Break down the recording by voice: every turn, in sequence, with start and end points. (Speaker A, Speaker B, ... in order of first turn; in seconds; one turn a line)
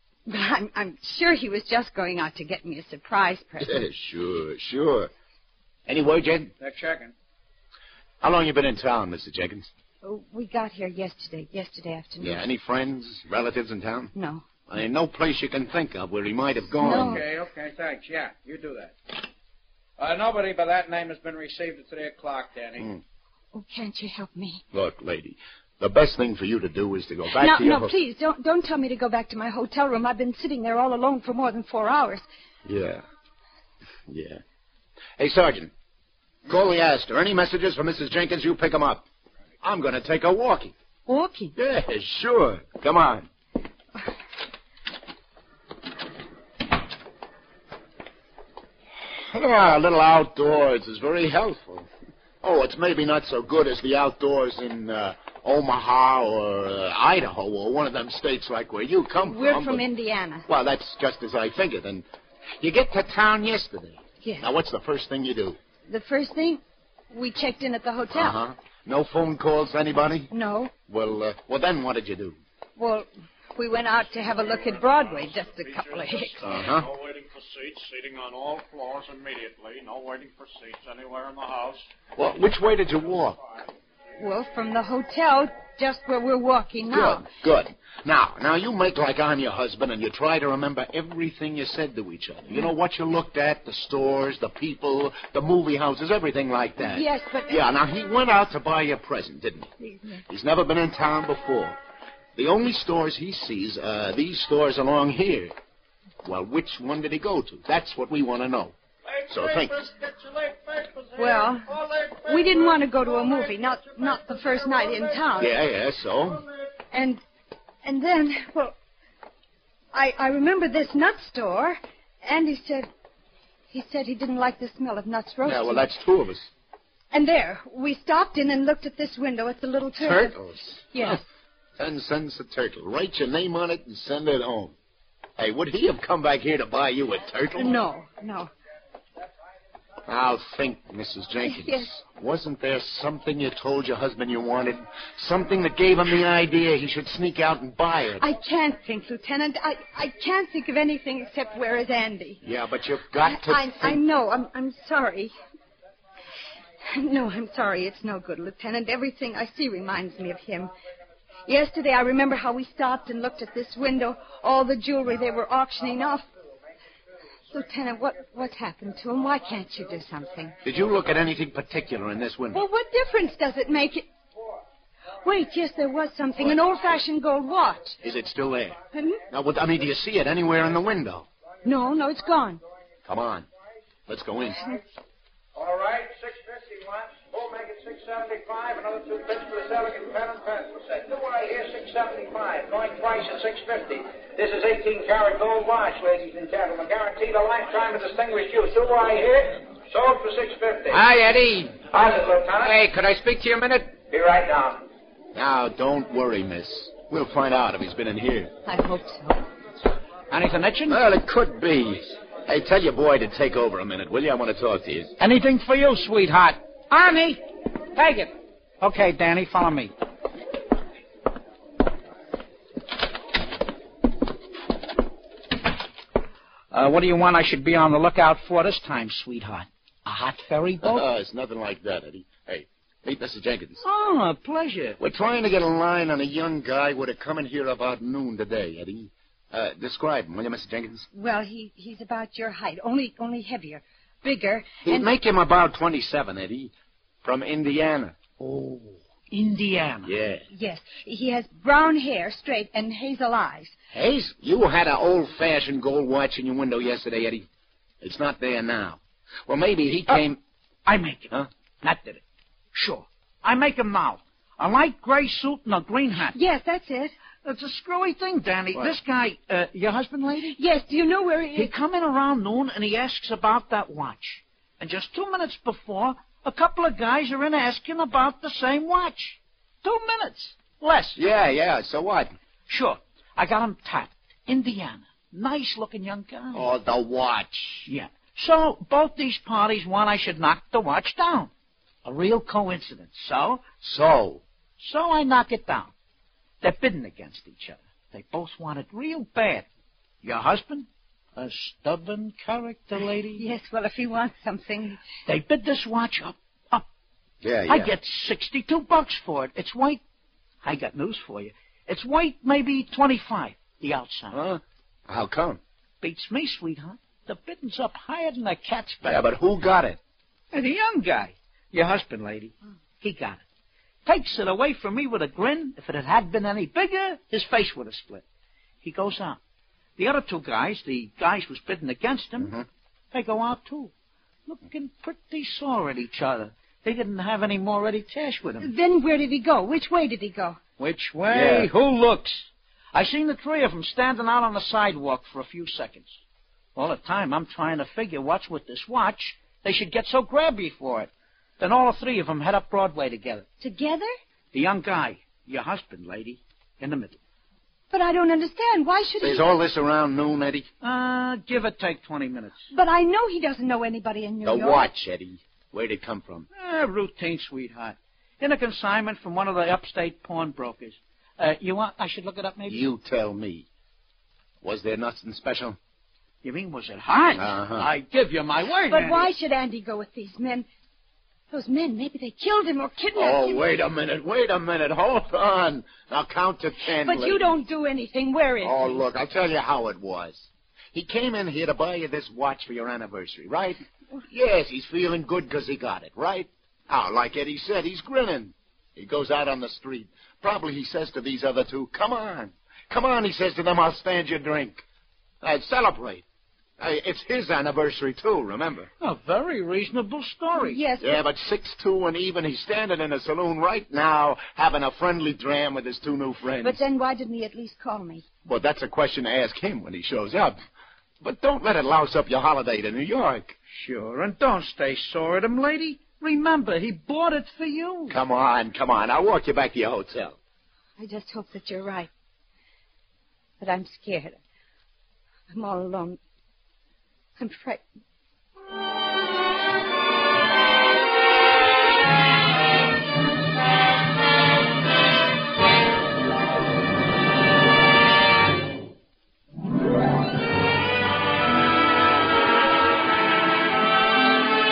Speaker A: 0.3-3.8
Speaker B: 3.6-5.1
Speaker B: 5.9-6.5
Speaker C: 6.6-7.1
Speaker B: 8.2-9.7
Speaker A: 10.0-12.4
Speaker B: 12.2-14.1
Speaker A: 14.1-14.4
Speaker B: 14.7-17.2
Speaker A: 16.7-17.2
Speaker C: 16.8-18.9
Speaker C: 20.0-22.9
Speaker A: 23.5-24.6
Speaker B: 24.7-27.9
Speaker A: 27.4-32.2
Speaker B: 32.6-33.0
Speaker B: 34.1-34.4
Speaker B: 35.2-35.7
Speaker B: 36.5-39.1
Speaker B: 39.6-40.7
Speaker A: 41.1-41.5
Speaker B: 41.5-43.3
Speaker B: 49.2-51.9
Speaker B: 52.4-59.8
Speaker A: 59.2-60.5
Speaker B: 60.5-62.0
Speaker B: 62.6-65.6
Speaker A: 64.2-64.5
Speaker A: 65.9-66.6
Speaker A: 67.1-68.4
Speaker B: 68.1-70.3
Speaker A: 70.3-70.7
Speaker B: 70.9-72.4
Speaker A: 72.8-76.5
Speaker D: 74.2-81.9
Speaker B: 76.4-76.9
Speaker B: 82.2-83.4
Speaker A: 84.2-87.3
Speaker B: 86.9-99.7
Speaker A: 96.8-97.6
Speaker A: 99.8-100.2
Speaker B: 100.3-101.8
Speaker B: 102.3-105.5
Speaker B: 106.2-108.7
Speaker B: 109.3-109.9
Speaker D: 109.5-111.4
Speaker A: 111.2-115.6
Speaker B: 115.4-116.4
Speaker A: 116.9-117.2
Speaker A: 117.8-118.7
Speaker A: 119.9-122.9
Speaker A: 123.7-125.9
Speaker B: 125.4-126.5
Speaker A: 127.1-130.3
Speaker B: 130.0-131.2
Speaker A: 130.9-131.2
Speaker B: 131.8-134.8
Speaker B: 135.4-137.8
Speaker A: 137.6-138.5
Speaker B: 140.1-148.3
Speaker A: 141.4-141.9
Speaker A: 148.2-152.4
Speaker B: 152.4-154.0
Speaker A: 153.2-155.3
Speaker A: 156.9-160.7
Speaker A: 161.5-166.3
Speaker A: 167.5-170.6
Speaker B: 170.6-172.6
Speaker A: 172.5-174.1
Speaker A: 175.2-178.0
Speaker B: 178.0-178.8
Speaker A: 178.9-179.2
Speaker B: 179.3-181.3
Speaker A: 181.6-182.6
Speaker B: 183.0-183.5
Speaker B: 184.1-184.6
Speaker C: 185.5-201.0
Speaker B: 200.9-201.7
Speaker C: 201.9-202.7
Speaker B: 202.6-203.9
Speaker C: 204.0-204.8
Speaker B: 205.3-208.5
Speaker A: 208.7-209.4
Speaker E: 210.3-211.0
Speaker B: 210.9-215.2
Speaker E: 215.2-217.4
Speaker E: 218.0-219.9
Speaker E: 226.7-231.0
Speaker B: 230.8-233.8
Speaker E: 233.8-235.0
Speaker B: 235.0-241.1
Speaker A: 241.1-245.1
Speaker B: 244.8-248.2
Speaker E: 248.4-250.1
Speaker B: 250.1-250.4
Speaker A: 250.5-253.7
Speaker B: 253.9-257.5
Speaker B: 258.0-260.4
Speaker E: 260.9-262.2
Speaker E: 262.7-266.4
Speaker A: 266.3-267.1
Speaker E: 267.4-270.6
Speaker A: 270.5-271.7
Speaker E: 271.5-281.2
Speaker B: 281.1-282.4
Speaker E: 282.7-286.7
Speaker B: 286.5-287.9
Speaker E: 287.9-291.5
Speaker E: 292.0-293.6
Speaker B: 293.8-294.4
Speaker E: 294.8-295.9
Speaker E: 296.6-299.6
Speaker E: 300.2-303.4
Speaker A: 303.3-305.0
Speaker E: 305.2-306.9
Speaker B: 307.4-307.9
Speaker E: 307.7-310.0
Speaker E: 310.6-314.4
Speaker B: 314.3-315.6
Speaker E: 316.0-319.2
Speaker B: 319.0-320.0
Speaker E: 320.5-323.4
Speaker E: 324.1-328.2
Speaker E: 328.8-329.4
Speaker E: 330.0-332.5
Speaker B: 332.4-332.6
Speaker E: 333.1-333.9
Speaker E: 334.4-338.7
Speaker A: 338.6-340.6
Speaker E: 340.8-346.2
Speaker B: 341.3-341.7
Speaker E: 346.7-353.4
Speaker A: 353.6-354.1
Speaker E: 354.5-357.2
Speaker A: 357.9-359.4
Speaker B: 359.2-360.7
Speaker E: 360.8-362.6
Speaker A: 362.7-364.9
Speaker B: 364.4-366.5
Speaker E: 366.5-372.8
Speaker B: 372.7-373.7
Speaker B: 374.6-375.8
Speaker E: 376.4-379.3
Speaker B: 377.4-377.9
Speaker A: 378.9-380.6
Speaker A: 381.5-383.6
Speaker B: 383.1-387.5
Speaker A: 387.0-389.0
Speaker B: 388.6-404.8
Speaker B: 405.4-406.2
Speaker B: 406.8-408.9
Speaker E: 409.0-410.8
Speaker A: 410.6-411.2
Speaker B: 411.0-416.8
Speaker A: 416.6-418.2
Speaker B: 418.4-420.6
Speaker B: 421.2-423.6
Speaker E: 423.7-428.2
Speaker B: 428.1-430.4
Speaker A: 431.0-432.1
Speaker A: 433.6-434.4
Speaker A: 435.5-436.2
Speaker A: 437.4-437.8